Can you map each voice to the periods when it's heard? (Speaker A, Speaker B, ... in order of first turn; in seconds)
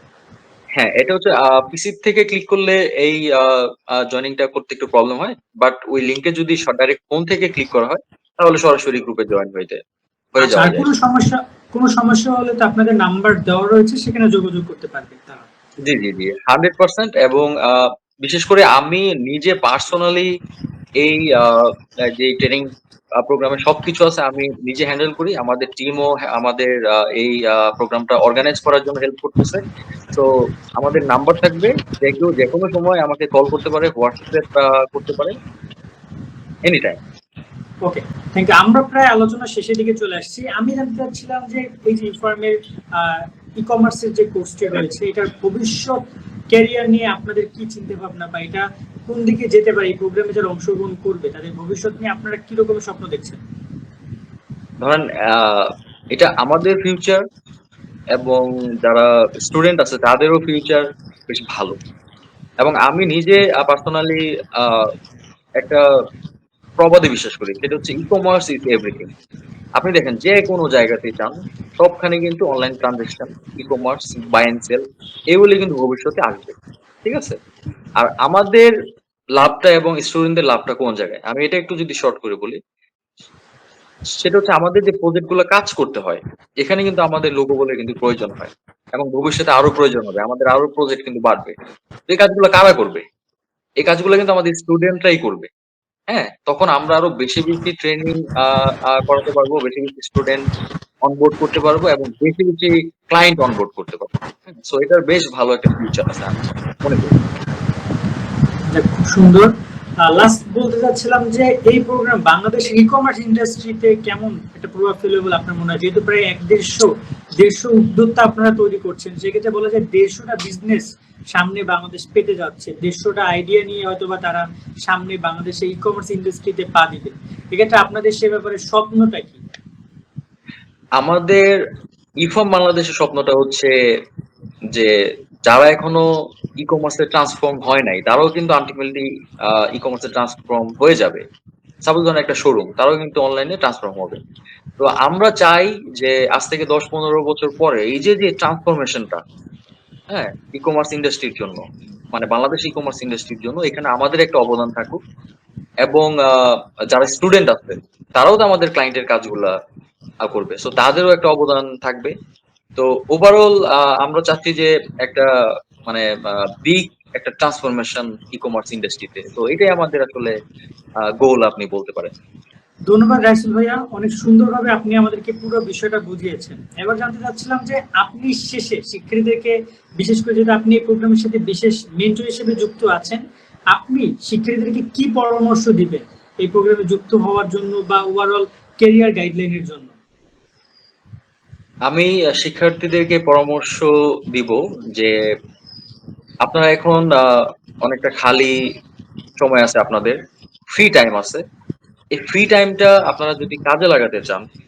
Speaker A: 0.8-9.8, 10.3-10.9, 15.8-20.3, 21.0-29.6, 30.1-35.3, 36.6-37.0, 54.8-57.2, 58.1-61.8, 62.6-64.9, 65.6-65.8, 66.8-69.1, 69.8-77.4, 78.0-78.7, 79.4-82.6, 84.2-91.5, 92.1-93.0, 93.8-95.5, 96.1-100.4, 101.0-107.2, 131.0-131.6, 132.2-133.7, 135.5-136.1, 136.6-141.2, 141.8-144.2, 144.8-149.2, 150.1-151.6, 152.1-155.0, 155.8-159.5, 160.2-162.1, 162.8-165.3, 165.8-170.4, 171.2-172.1, 191.9-195.2, 196.4-198.6, 199.4-200.2, 200.7-201.4, 202.1-204.4
Speaker B: 10.4-15.4, 37.8-46.0, 46.5-53.4, 108.7-109.5, 110.0-129.4, 172.9-189.9